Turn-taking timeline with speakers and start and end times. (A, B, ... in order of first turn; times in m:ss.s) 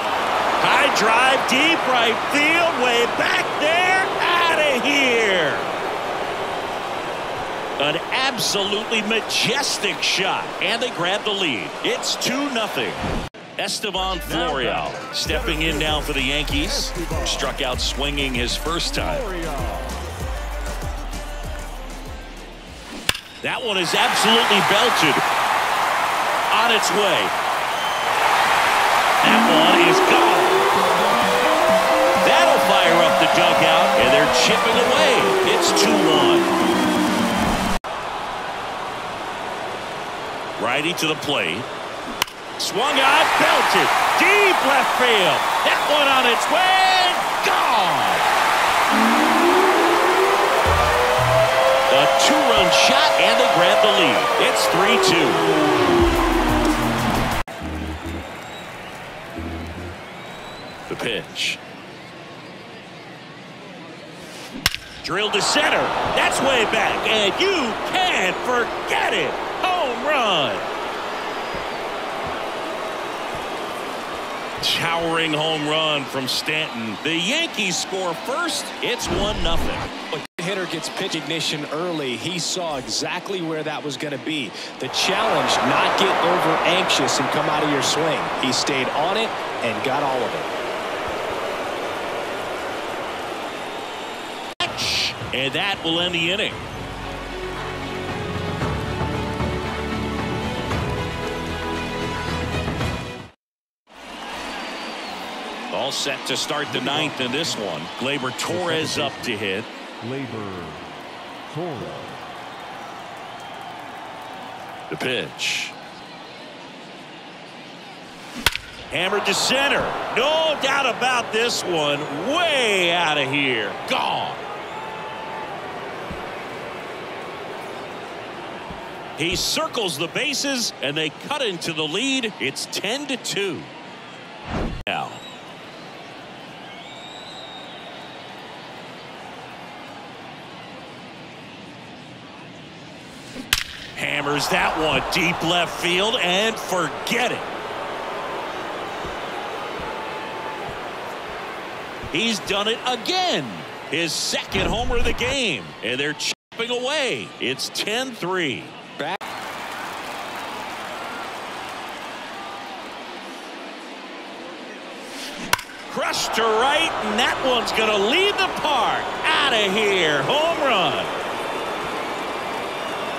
0:00.6-0:05.7 A
0:07.8-0:13.0 A
0:13.6-0:19.2 A
0:15.5-0:15.9 B
0:16.9-0:17.2 B
0:19.3-0:19.8 B
0:23.4-0:25.2 A
0:26.5-0:27.3 A
0:29.2-0:30.7 A
0:32.2-0:36.5 A
0:40.6-0:41.7 A
0:42.6-0:48.3 A
0:51.9-0:55.5 A
1:00.9-1:01.6 A
1:05.0-1:10.7 A
1:14.6-1:19.9 A
1:20.1-1:30.5 C
1:34.6-1:36.6 A
1:45.7-1:49.7 A
1:50.1-1:50.8 B
1:51.5-1:52.1 B
1:54.9-1:55.7 A
1:58.9-2:04.4 A
2:09.2-2:13.7 A
2:14.8-2:15.2 A
2:23.9-2:27.5 A
2:32.1-2:38.8 A
2:45.9-2:51.1 A